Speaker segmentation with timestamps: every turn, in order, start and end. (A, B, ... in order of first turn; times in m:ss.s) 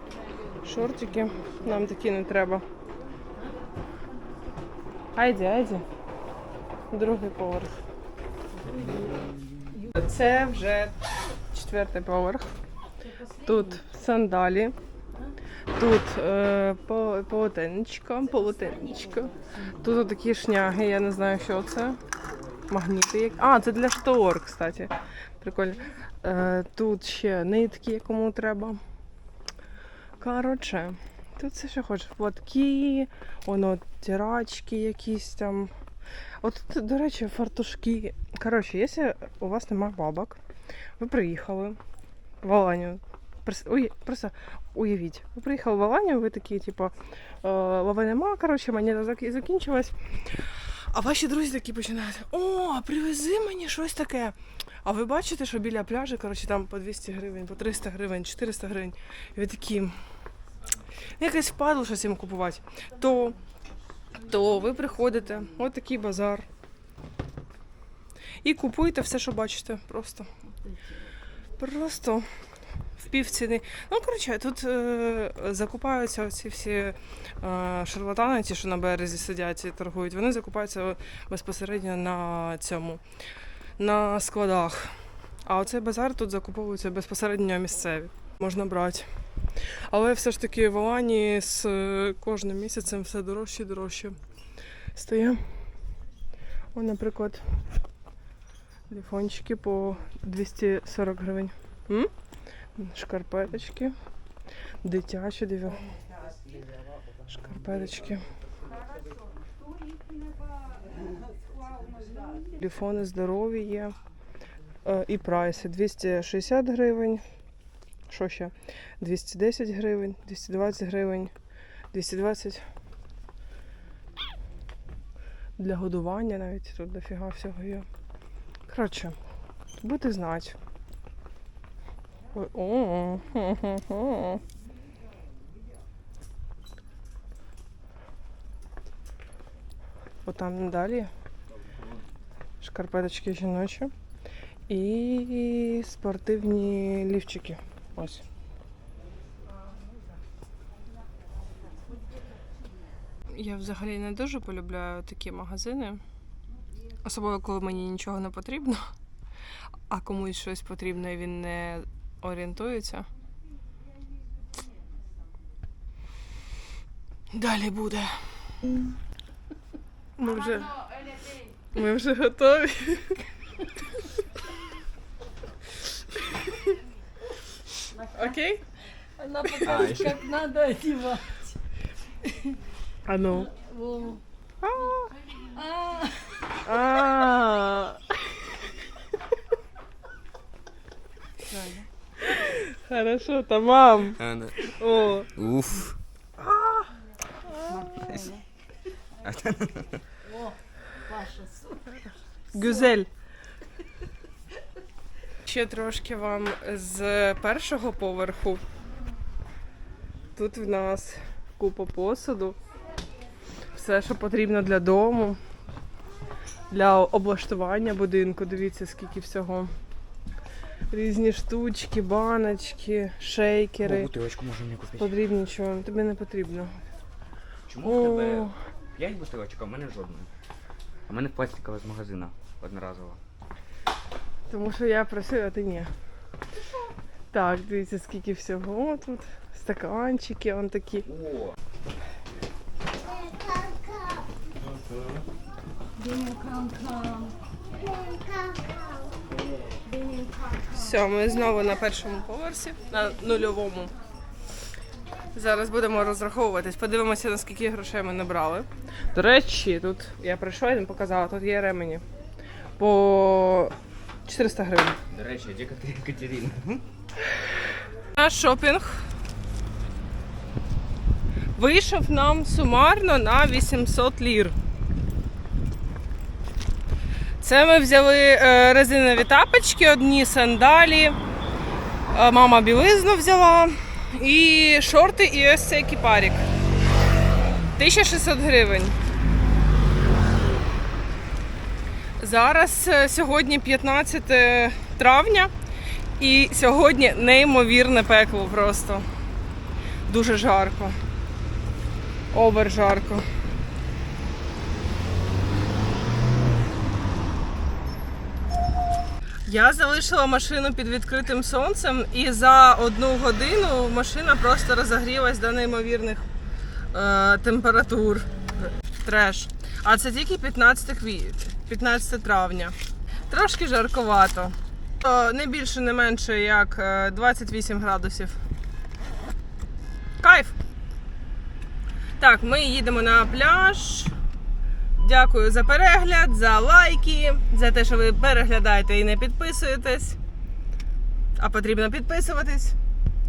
0:00.6-0:02.6 A
0:05.2-0:05.8 A
0:06.9-0:07.8 A
0:08.6-0:09.3 B
0:10.0-0:11.0 A
0:11.5-0:12.5 A
0:13.5-0:14.8 A
0:15.8-0:22.0 A
0:22.7-0:28.8 A
0:30.2-0:35.7 A
0:36.4-0:40.4 A
0:41.0-0:41.8 A
0:42.4-1:00.0 A
1:01.2-1:03.4 A
1:04.2-1:06.5 A
1:08.4-1:10.3 A
1:11.6-1:12.3 A
1:13.0-1:23.0 A
1:23.8-1:34.2 A
1:34.9-1:35.5 A
1:36.7-1:37.6 A
1:38.9-1:42.1 A
1:42.8-1:44.0 A
1:44.8-1:45.8 A
1:47.3-1:48.2 A
1:52.6-1:53.9 A
1:54.8-1:57.2 A
1:58.1-2:01.3 A
2:01.9-2:02.6 A
2:05.6-2:07.9 A
2:08.7-2:09.2 A
2:09.8-2:10.6 A
2:12.3-2:14.4 A
2:20.3-2:21.1 A
2:22.6-2:23.9 A
2:24.7-2:28.2 A
2:33.3-2:36.0 A
2:37.0-2:38.9 A
2:39.9-2:43.1 A
2:47.3-2:48.2 A
2:50.2-2:50.8 A
2:51.7-2:53.2 A
2:58.1-2:58.6 A
2:59.2-3:01.6 B
2:59.6-2:59.9 A
2:59.6-3:00.2 C
3:02.2-3:02.6 B
3:03.1-3:03.5 A
3:03.4-3:04.2 B
3:04.6-3:05.2 A
3:05.5-3:06.6 B
3:06.6-3:08.4 A
3:11.4-3:11.9 B
3:12.2-3:15.3 A
3:14.2-3:14.7 C
3:15.3-3:16.0 C
3:16.4-3:16.9 A
3:17.5-3:18.2 A
3:17.7-3:18.4 B
3:19.2-3:20.1 C
3:20.3-3:22.1 B
3:22.5-3:23.1 A
3:25.4-3:28.6 A
3:30.4-3:32.6 A
3:33.7-3:35.4 A
3:36.7-3:39.7 A
3:40.9-3:44.1 A
3:43.8-3:45.2 C
3:45.0-3:46.8 A
3:47.7-3:50.3 C
3:47.8-3:48.6 A
3:51.1-3:53.2 C
3:54.5-3:55.9 A
3:57.3-4:01.1 A
4:01.1-4:01.6 C
4:06.1-4:07.3 B
4:10.7-4:13.9 A
4:15.3-4:22.0 A
4:22.8-4:23.7 A
4:24.3-4:25.0 A
4:25.1-4:26.9 C
4:28.1-4:29.1 A
4:31.6-4:34.6 A
4:37.4-4:41.2 A
4:42.1-4:46.5 A
4:47.8-4:49.0 A
4:52.2-4:55.5 A
4:56.2-4:59.1 A
5:00.1-5:01.0 A
5:02.3-5:03.3 A
5:09.5-5:16.2 A
5:16.9-5:18.3 A
5:19.0-5:22.8 A
5:23.3-5:28.4 A
5:30.2-5:30.6 A
5:32.2-5:34.1 A
5:35.0-5:40.2 A
5:41.4-5:42.8 A